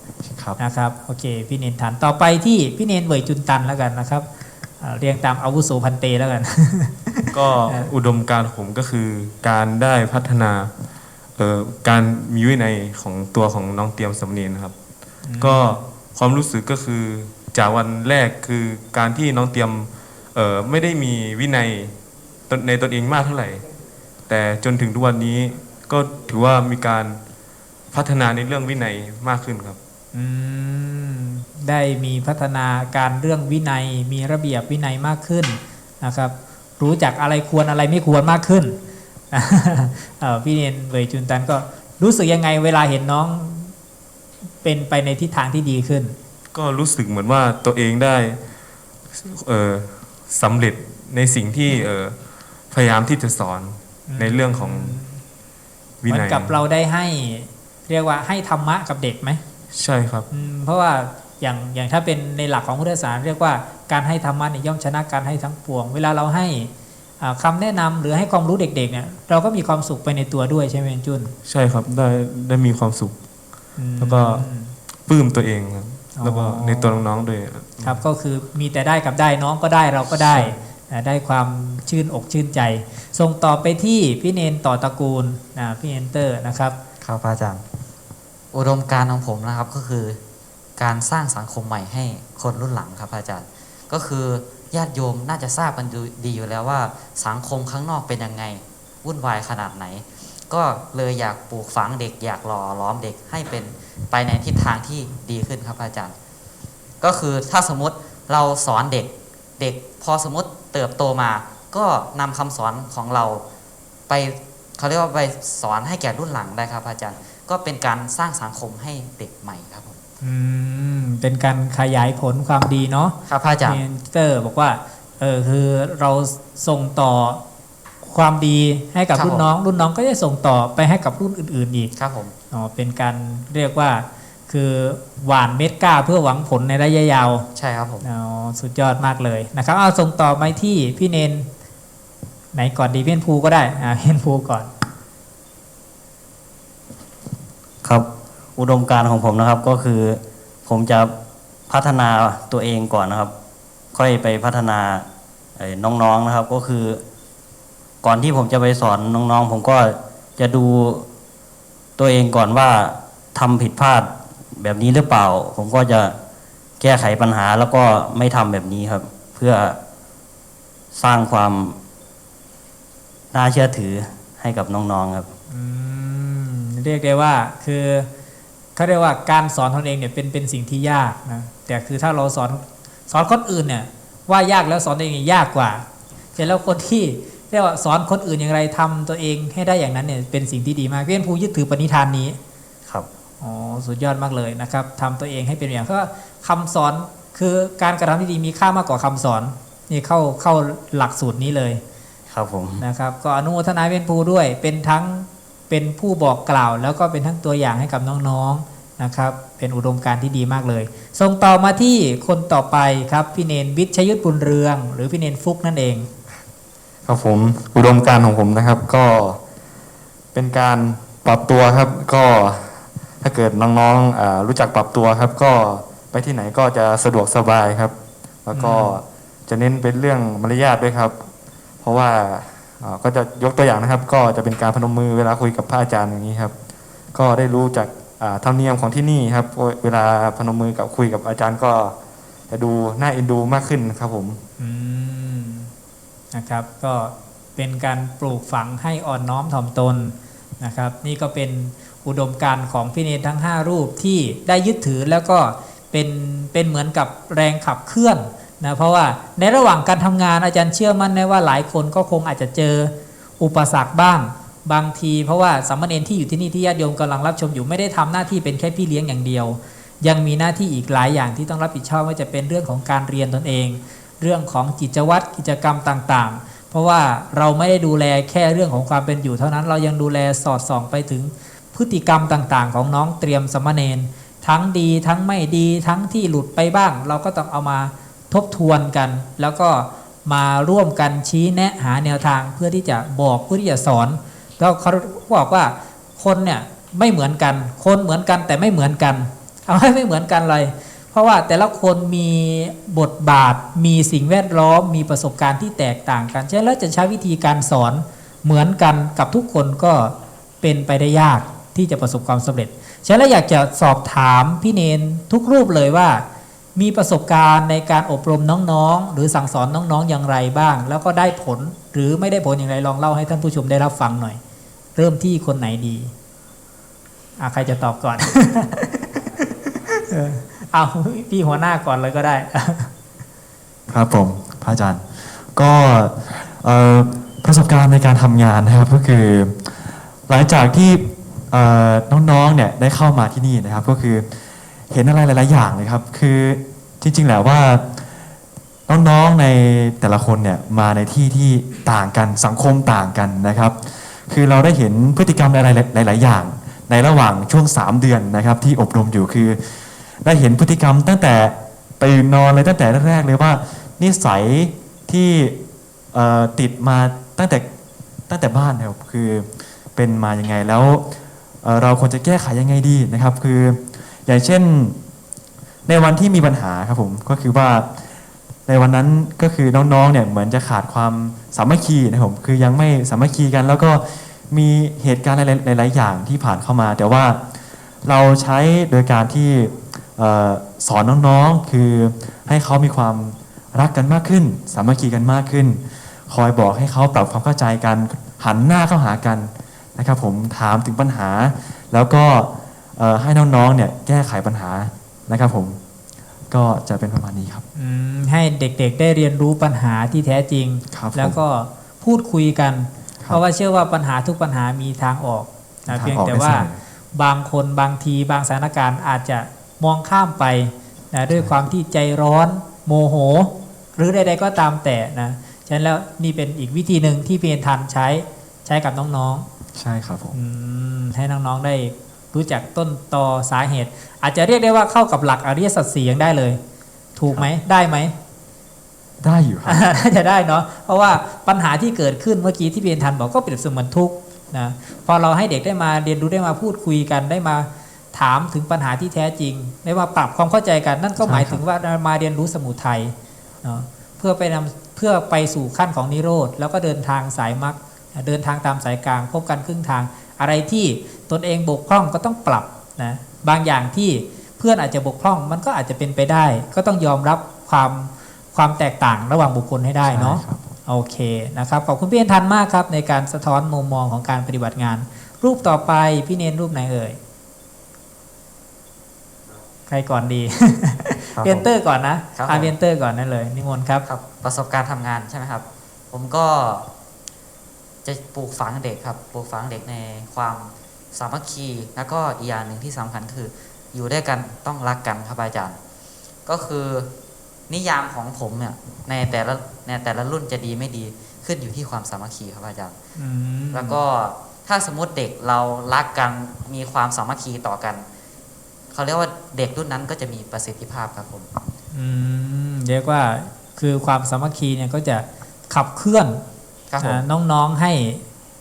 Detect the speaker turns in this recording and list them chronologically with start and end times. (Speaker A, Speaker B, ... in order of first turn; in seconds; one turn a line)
Speaker A: 0.2-0.6
Speaker B: 0.6-4.3
Speaker B: 4.8-7.9
Speaker C: 7.3-10.7
Speaker C: 11.4-14.8
Speaker B: 15.2-15.8
Speaker C: 15.4-21.9
Speaker C: 22.5-23.6
Speaker C: 24.3-27.2
Speaker C: 27.9-29.8
Speaker B: 30.1-38.8
Speaker B: 39.3-43.7
Speaker B: 44.6-46.1
Speaker C: 46.5-48.4
Speaker C: 49.2-52.2
Speaker C: 52.7-55.0
Speaker B: 54.1-55.2
Speaker C: 56.0-56.6
Speaker B: 56.1-59.4
Speaker C: 59.7-60.3
Speaker B: 60.3-66.7
Speaker B: 67.2-71.3
Speaker C: 71.5-73.2
Speaker B: 73.8-74.7
Speaker C: 74.0-74.4
Speaker C: 75.1-78.0
Speaker B: 76.2-77.0
Speaker B: 77.8-86.8
Speaker D: 87.0-87.6
Speaker D: 88.5-90.2
Speaker D: 90.8-106.1
Speaker D: 107.0-113.4
Speaker D: 114.1-120.0
Speaker B: 120.2-123.2
Speaker D: 123.3-123.8
Speaker B: 123.7-127.4
Speaker B: 128.0-131.9
Speaker D: 129.2-129.5
Speaker D: 132.0-132.3
Speaker B: 132.5-137.5
Speaker D: 137.6-138.1
Speaker B: 138.0-141.5
Speaker B: 142.5-144.7
Speaker E: 147.8-151.1
Speaker E: 151.7-153.3
Speaker E: 153.9-155.1
Speaker E: 155.6-157.0
Speaker E: 158.0-161.1
Speaker E: 162.0-166.2
Speaker E: 166.8-169.8
Speaker E: 170.9-171.8
Speaker E: 173.3-175.3
Speaker B: 175.5-178.1
Speaker B: 178.8-185.8
Speaker B: 186.4-192.4
Speaker B: 193.4-201.8
Speaker E: 202.3-202.8
Speaker B: 202.8-216.1
Speaker F: 217.1-219.4
Speaker F: 220.3-231.2
Speaker B: 228.5-229.0
Speaker F: 231.8-236.5
Speaker F: 237.1-241.9
Speaker F: 242.5-244.4
Speaker B: 244.6-245.7
Speaker B: 246.3-316.2
Speaker B: 316.8-324.4
Speaker B: 325.0-326.1
Speaker B: 327.4-329.1
Speaker B: 329.7-332.9
Speaker A: 333.9-344.4
Speaker A: 344.9-348.1
Speaker A: 348.9-365.6
Speaker A: 366.1-367.7
Speaker A: 368.3-371.1
Speaker A: 371.6-375.0
Speaker A: 375.9-378.1
Speaker A: 378.7-387.4
Speaker A: 388.0-405.8
Speaker A: 406.5-407.6
Speaker B: 407.8-429.5
Speaker A: 410.9-411.4
Speaker A: 415.9-416.8
Speaker A: 429.7-430.4
Speaker B: 430.3-436.6
Speaker B: 437.2-438.1
Speaker A: 439.2-439.8
Speaker B: 439.7-477.2
Speaker A: 451.2-451.6
Speaker A: 470.1-470.7
Speaker B: 479.9-484.0
Speaker D: 481.4-481.7
Speaker D: 482.4-482.7
Speaker D: 484.1-486.9
Speaker D: 488.1-495.8
Speaker D: 496.5-497.1
Speaker D: 497.7-503.0
Speaker B: 503.2-504.0
Speaker D: 503.7-508.1
Speaker D: 508.9-511.5
Speaker B: 511.9-516.4
Speaker D: 516.9-517.2
Speaker B: 517.0-518.2